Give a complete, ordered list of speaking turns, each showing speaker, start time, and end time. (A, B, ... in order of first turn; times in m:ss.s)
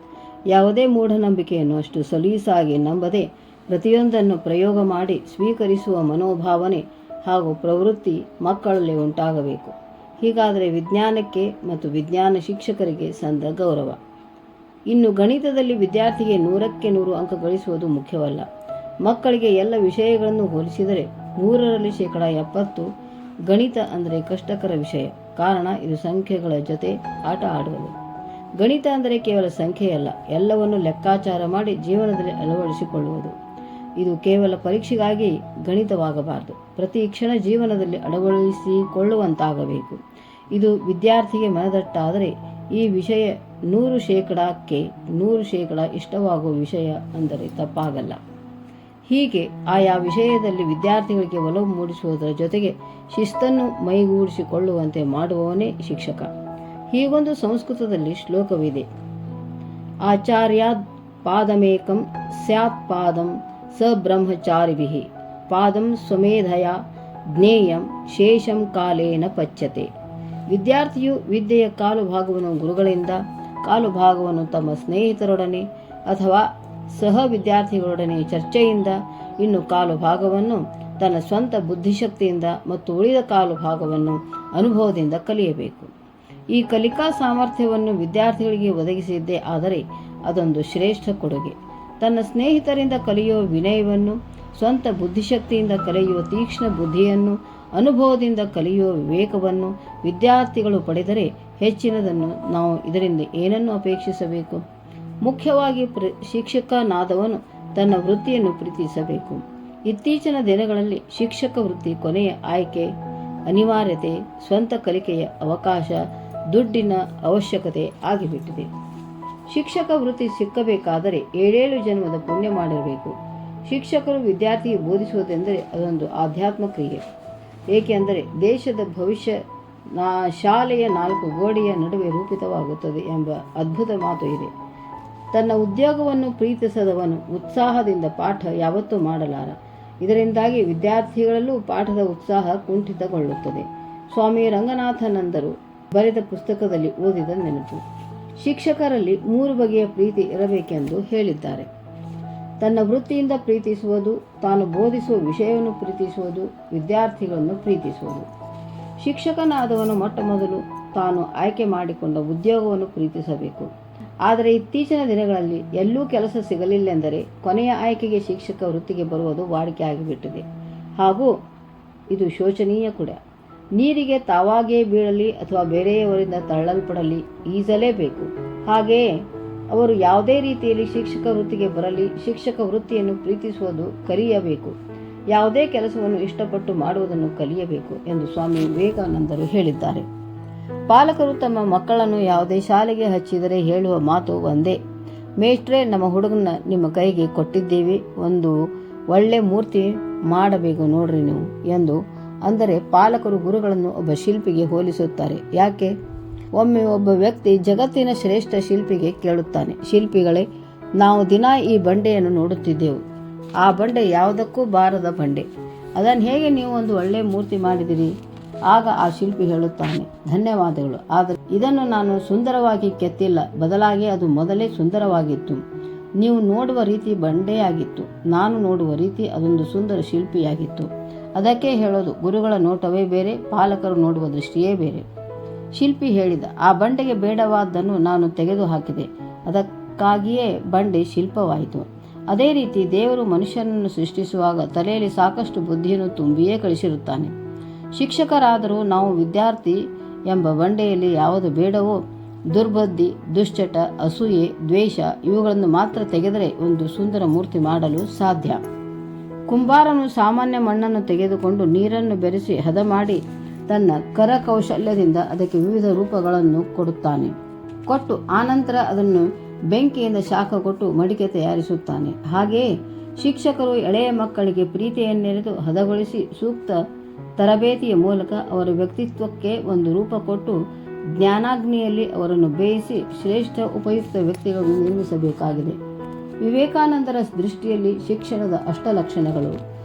0:00.5-0:14.0 A
0:14.9-0:18.5 A
0:19.0-0:22.9 A
0:23.5-0:28.0 A
0:28.6-0:33.3 A
0:34.0-0:48.2 A
0:49.1-0:56.3 A
0:56.9-0:58.9 A
1:00.0-1:06.8 A
1:07.3-1:09.9 A
1:10.5-1:25.9 A
1:26.5-1:44.6 A
1:45.2-1:52.9 A
1:53.5-1:58.7 A
1:59.5-2:07.0 A
2:07.7-2:09.4 A
2:09.9-2:14.5 A
2:15.3-2:27.8 A
2:28.4-2:31.7 A
2:32.6-2:38.3 A
2:39.0-2:43.7 A
2:44.2-2:50.5 A
2:51.0-2:51.3 A
2:52.1-2:53.2 A
2:53.8-2:59.1 A
2:59.7-3:04.8 A
3:05.3-3:10.0 A
3:10.9-3:14.8 A
3:15.4-3:18.6 A
3:19.1-3:26.0 A
3:26.6-3:33.0 A
3:33.6-3:38.2 A
3:38.7-3:45.6 A
3:46.2-3:55.0 A
3:55.7-4:07.3 A
4:08.0-4:12.0 A
4:12.5-4:18.6 A
4:19.5-4:27.4 A
4:27.9-4:36.8 A
4:37.4-4:40.6 A
4:41.2-4:45.8 A
4:46.4-4:49.6 A